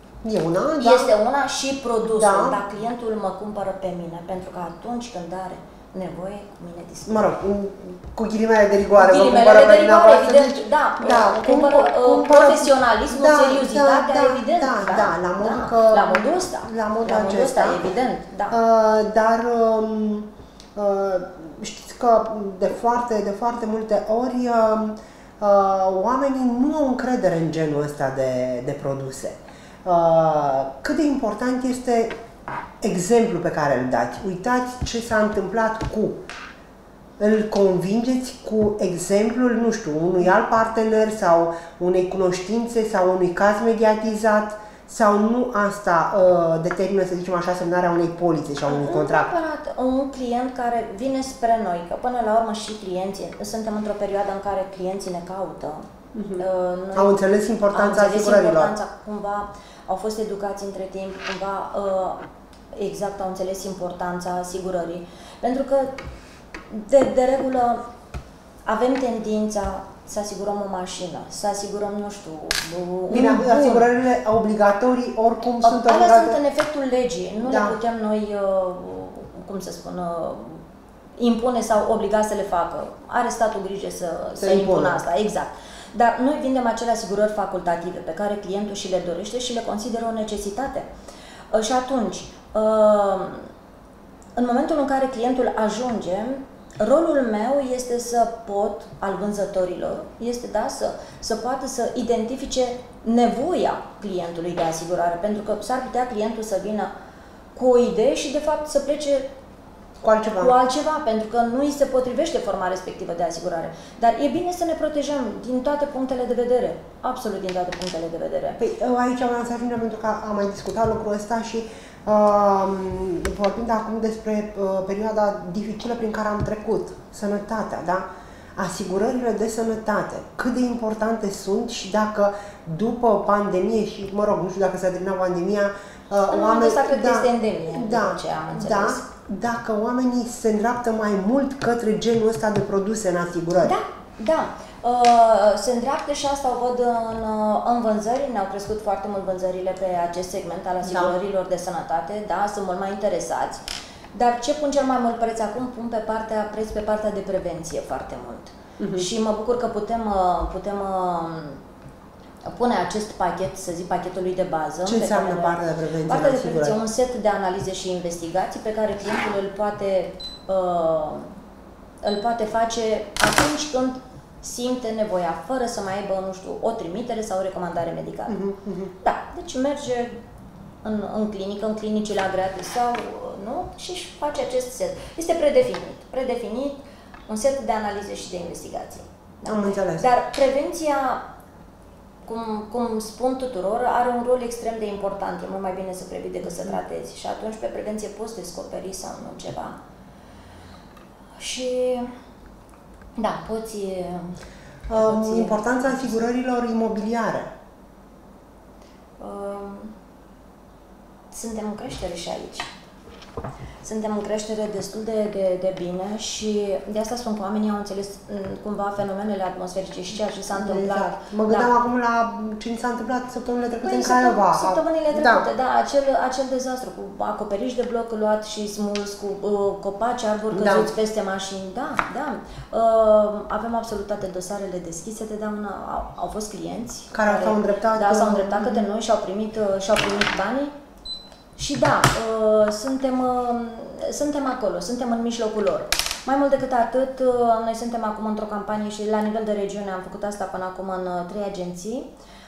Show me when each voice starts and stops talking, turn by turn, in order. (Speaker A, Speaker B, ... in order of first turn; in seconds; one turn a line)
Speaker A: 0.2-1.1
Speaker B: 0.8-7.2
Speaker A: 2.2-2.6
Speaker A: 7.0-17.8
Speaker B: 8.9-18.6
Speaker A: 18.5-32.1
Speaker A: 32.8-36.2
Speaker A: 37.2-49.3
Speaker B: 48.7-55.9
Speaker A: 56.1-58.7
Speaker B: 56.4-57.2
Speaker B: 57.7-62.2
Speaker B: 62.7-66.0
Speaker B: 66.7-67.8
Speaker B: 68.7-73.9
Speaker A: 73.1-76.4
Speaker B: 75.6-80.6
Speaker A: 77.5-77.8
Speaker B: 81.2-90.9
Speaker A: 84.3-85.0
Speaker B: 91.5-93.5
Speaker B: 94.3-106.9
Speaker B: 107.5-109.3
Speaker A: 110.0-110.5
Speaker B: 110.4-118.6
Speaker A: 118.6-143.8
Speaker B: 136.3-139.0
Speaker B: 143.6-153.6
Speaker A: 150.8-151.1
Speaker B: 154.1-161.6
Speaker A: 158.8-159.1
Speaker B: 162.4-171.3
Speaker A: 164.8-166.8
Speaker B: 172.0-178.4
Speaker A: 178.3-178.9
Speaker B: 179.0-180.2
Speaker B: 180.8-191.2
Speaker A: 189.4-190.1
Speaker B: 192.2-199.8
Speaker A: 196.4-196.8
Speaker B: 201.4-202.1
Speaker B: 203.2-204.4
Speaker A: 204.9-207.5
Speaker B: 204.9-206.2
Speaker B: 209.2-209.9
Speaker B: 211.3-212.7
Speaker B: 213.8-221.7
Speaker A: 220.3-225.5
Speaker B: 223.8-240.7
Speaker A: 230.5-230.9
Speaker A: 237.1-238.9
Speaker B: 241.6-252.1